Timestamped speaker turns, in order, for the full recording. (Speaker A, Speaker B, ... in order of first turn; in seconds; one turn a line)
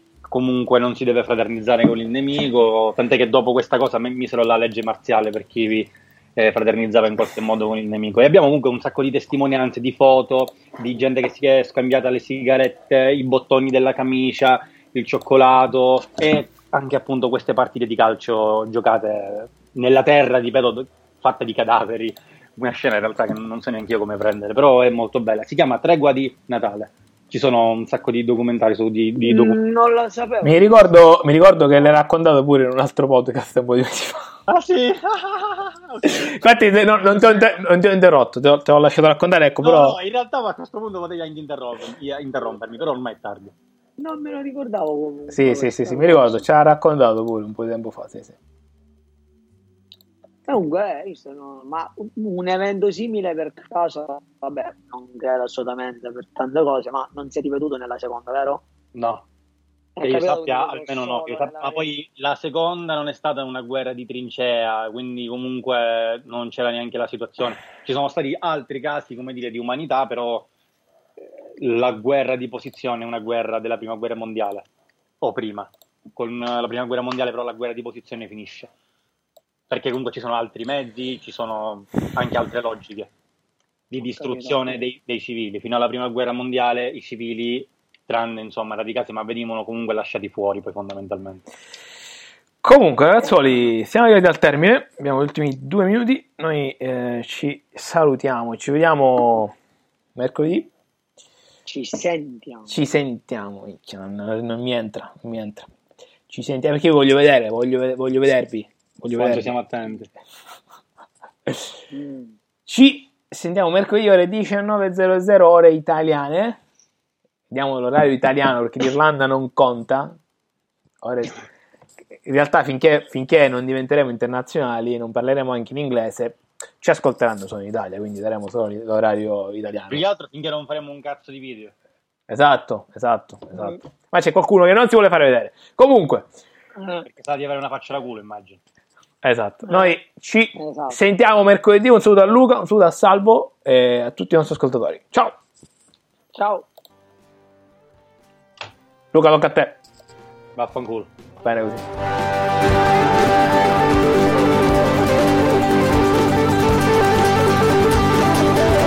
Speaker A: 0.3-29.6
Speaker B: 29.2-30.7
Speaker C: 30.4-34.3
Speaker A: 34.5-36.4
Speaker C: 36.0-40.0
Speaker A: 37.1-37.6
Speaker A: 39.6-43.5
Speaker B: 44.0-46.5
Speaker C: 45.3-48.4
Speaker B: 50.5-58.6
Speaker A: 59.0-59.2
Speaker B: 60.0-61.9
Speaker A: 60.0-70.5
Speaker A: 71.6-74.7
Speaker A: 75.2-78.7
Speaker A: 79.7-83.1
Speaker A: 83.9-91.5
Speaker B: 84.0-84.8
Speaker C: 92.6-99.5
Speaker C: 100.2-100.7
Speaker B: 101.7-102.8
Speaker C: 102.7-105.7
Speaker C: 106.3-109.5
Speaker A: 109.2-110.1
Speaker B: 111.9-112.3
Speaker C: 112.7-116.6
Speaker C: 117.5-120.2
Speaker C: 121.0-121.4
Speaker C: 122.2-130.1
Speaker A: 129.9-131.7
Speaker C: 132.3-136.3
Speaker B: 136.8-137.1
Speaker A: 137.1-138.6
Speaker C: 139.2-145.4
Speaker B: 139.7-139.9
Speaker B: 140.6-141.0
Speaker B: 146.3-146.7
Speaker C: 149.1-149.8
Speaker A: 150.6-151.1
Speaker C: 151.4-151.9